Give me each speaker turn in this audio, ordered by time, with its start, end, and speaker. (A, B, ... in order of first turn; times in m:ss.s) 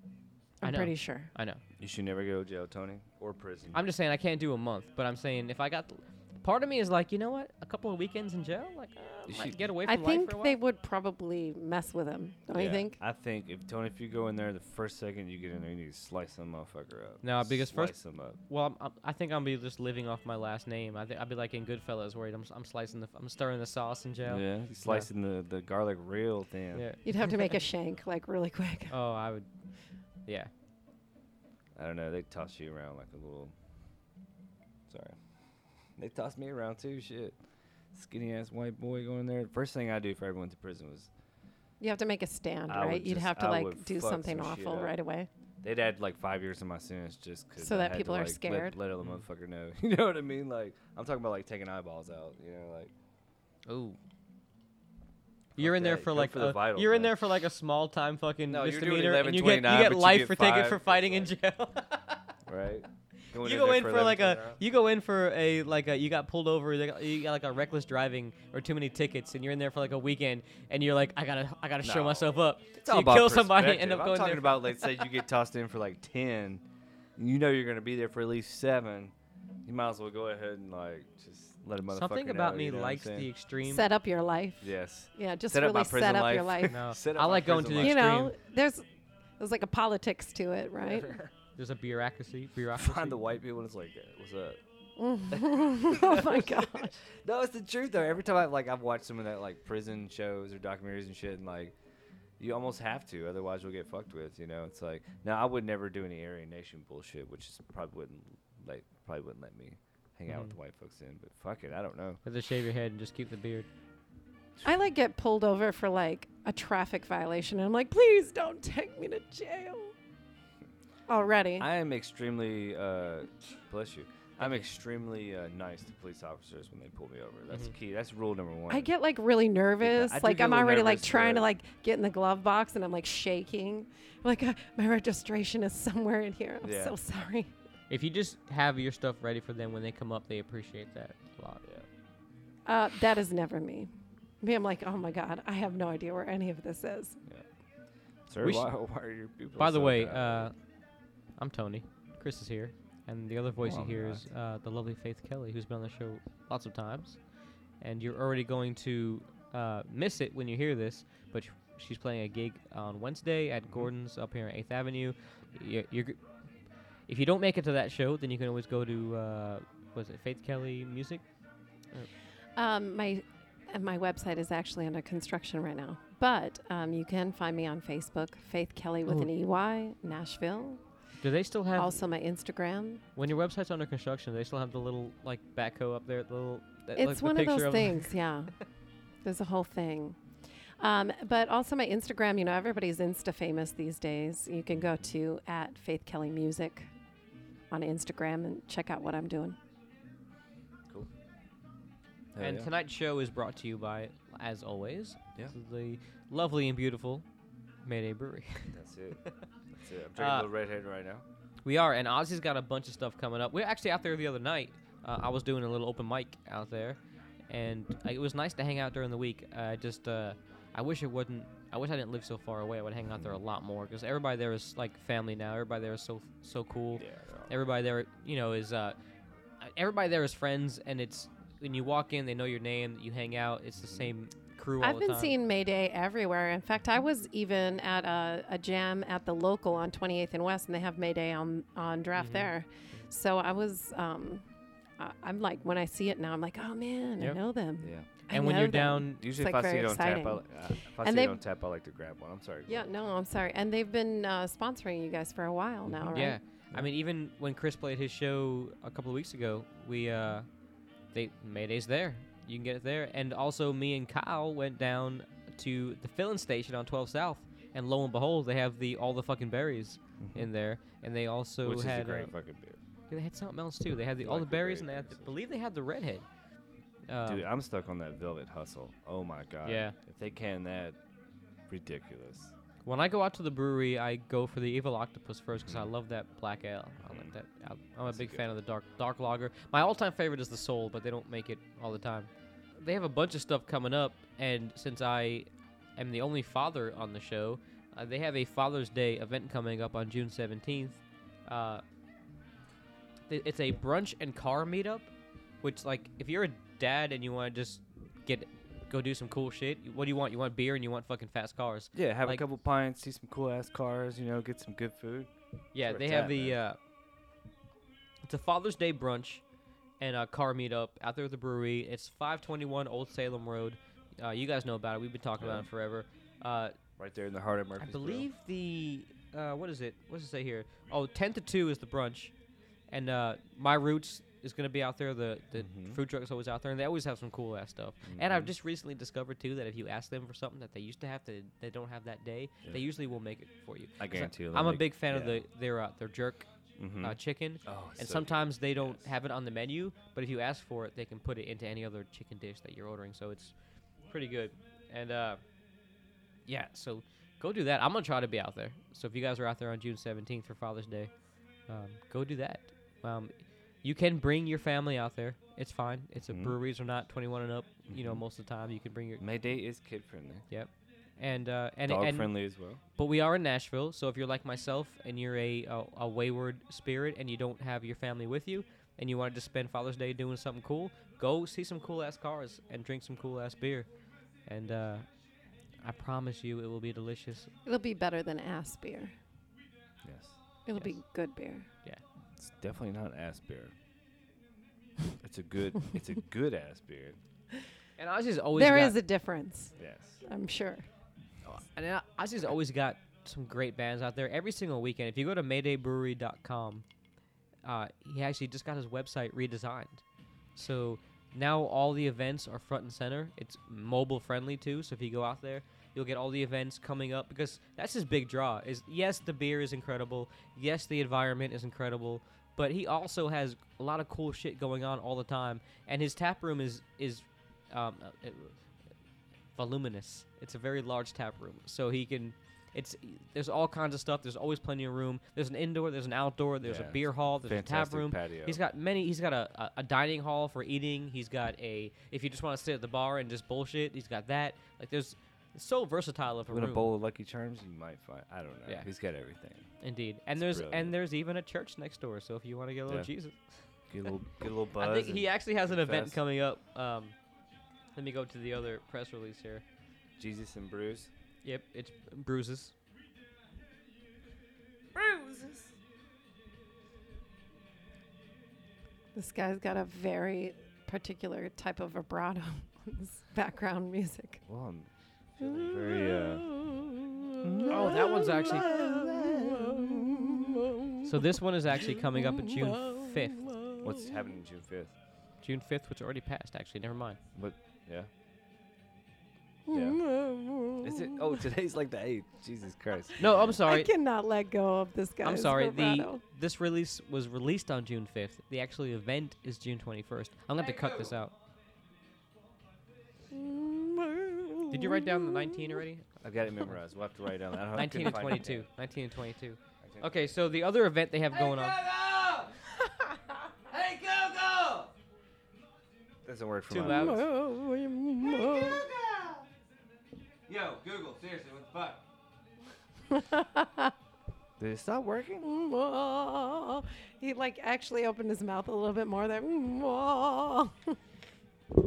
0:00.6-0:01.3 A
0:00.6-0:01.6 B
0:01.8-0:03.8 C
0:03.7-0:10.6 B
0:09.3-0:09.6 C
0:09.8-0:13.0 A
0:12.5-0:18.4 C
0:17.2-0:17.9 B
0:18.5-0:25.1 B
0:24.2-0:26.8 C
0:26.7-0:27.5 B
0:27.0-0:28.9 A
0:28.9-0:29.5 B
0:31.8-0:33.5 C
0:34.9-0:35.2 C
0:36.0-0:37.4 C
0:37.9-0:41.1 C
0:41.8-0:45.3 A
0:42.7-0:44.9 C
0:45.6-0:52.9 C
0:47.6-0:48.8 A
0:53.7-0:54.0 B
0:55.6-0:57.2 C
0:55.6-1:02.3 B
0:58.5-1:01.3 C
1:02.5-1:04.6 C
1:03.4-1:15.0 B
1:11.8-1:16.6 C
1:17.2-1:19.1 C
1:19.6-1:23.3 C
1:21.9-1:23.8 B
1:23.6-1:26.8 A
1:24.6-1:28.1 C
1:26.7-1:28.3 B
1:27.8-1:28.8 A
1:29.4-1:31.2 A
1:31.6-1:33.2 B
1:32.7-1:34.6 C
1:35.0-1:37.0 A
1:35.3-1:41.7 C
1:42.4-1:52.2 C
1:52.2-1:53.7 B
1:54.6-1:59.9 A
2:01.1-2:01.7 A
2:01.6-2:08.9 C
2:04.4-2:04.6 B
2:08.7-2:17.5 A
2:09.8-2:11.4 C
2:16.6-2:17.0 C
2:17.9-2:21.6 B
2:22.6-2:23.9 A
2:24.4-2:27.2 A
2:28.3-2:30.5 C
2:28.4-2:28.7 B
2:29.6-2:30.5 B
2:31.4-2:37.2 B
2:33.6-2:34.2 C
2:37.8-2:46.2 B
2:47.1-2:51.2 B
2:52.6-3:00.8 A
3:01.2-3:01.9 B
3:01.8-3:03.0 A
3:03.2-3:08.1 B
3:07.0-3:08.5 A
3:09.2-3:10.2 A
3:10.8-3:16.9 A
3:17.7-3:19.6 A
3:22.3-3:22.7 C
3:22.4-3:27.2 B
3:27.8-3:28.7 B
3:28.7-3:29.2 C
3:29.7-3:31.2 C
3:30.2-3:30.5 B
3:31.6-3:49.0 B
3:47.0-3:47.6 C
3:49.6-3:55.3 B
3:53.8-3:54.1 C
3:54.8-4:04.4 A
4:02.2-4:03.0 B
4:05.0-4:10.4 A
4:07.8-4:08.1 C
4:08.3-4:09.2 B
4:09.2-4:12.9 C
4:11.0-4:11.4 A
4:12.7-4:16.4 A
4:15.8-4:16.2 C
4:16.1-4:20.4 B
4:21.1-4:32.3 B
4:30.2-4:30.5 C
4:31.6-4:32.8 C
4:33.1-4:36.2 B
4:34.2-4:35.3 C
4:37.1-4:37.4 B
4:37.2-4:41.0 C
4:39.6-4:39.9 B
4:41.7-4:42.5 C
4:42.8-5:01.8 B
4:47.0-4:47.3 C
4:48.1-4:48.4 C
5:03.3-5:05.1 B
5:05.6-5:12.4 B
5:11.9-5:15.3 C
5:15.7-5:16.8 B
5:15.8-5:16.6 C
5:18.2-5:19.4 B
5:20.0-5:26.8 B
5:25.4-5:25.7 C
5:27.0-5:28.3 C
5:27.8-5:32.3 B
5:32.9-5:46.5 B
5:35.6-5:36.0 C
5:38.1-5:38.5 C
5:44.0-5:45.4 C
5:46.8-5:49.0 C
5:47.0-5:53.5 B
5:54.1-5:55.4 B
5:56.5-6:01.1 B
6:01.7-6:09.2 B
6:06.3-6:06.5 C
6:07.9-6:08.2 C
6:09.2-6:10.4 C
6:10.5-6:12.3 B
6:11.8-6:12.8 C
6:12.9-6:23.9 B
6:24.4-6:25.0 B
6:25.8-6:27.5 B
6:27.6-6:29.1 A
6:30.0-6:30.4 C
6:30.6-6:31.7 A
6:32.4-6:33.7 C
6:35.2-6:37.2 C
6:38.0-6:39.0 B
6:38.6-6:40.9 A
6:39.8-6:40.2 C
6:41.4-6:46.8 B
6:47.6-6:50.0 B
6:50.6-7:08.6 B
7:09.6-7:26.9 B
7:16.6-7:18.6 C
7:26.5-7:29.7 C
7:29.8-7:33.4 B
7:30.4-7:30.9 C
7:33.9-7:36.2 C
7:34.8-7:37.1 B
7:37.9-7:39.6 B
7:40.2-7:41.1 C
7:41.4-7:42.7 B
7:44.9-7:45.7 C
7:49.1-7:54.4 A
7:54.4-7:56.6 C
7:55.4-8:00.6 A
7:57.4-8:00.5 C
7:57.6-7:58.8 B
8:01.0-8:03.7 B
8:02.6-8:03.1 A
8:03.8-8:04.9 C
8:05.4-8:07.2 B
8:07.3-8:08.1 C
8:09.7-8:11.4 A
8:09.7-8:10.0 C
8:10.8-8:13.5 C
8:13.2-8:13.9 B
8:13.6-8:16.2 A
8:15.2-8:21.3 B
8:20.8-8:21.1 C
8:23.3-8:25.7 A
8:24.7-8:26.0 B
8:26.2-8:28.7 C
8:27.7-8:31.8 B
8:29.8-8:30.3 C
8:31.3-8:32.6 C
8:33.6-8:34.9 C
8:36.2-8:37.3 C
8:36.7-8:37.2 B
8:36.8-8:38.9 A
8:38.2-8:39.4 C
8:40.5-8:42.0 C
8:43.1-8:43.9 A
8:44.6-8:45.5 C
8:45.4-8:51.0 A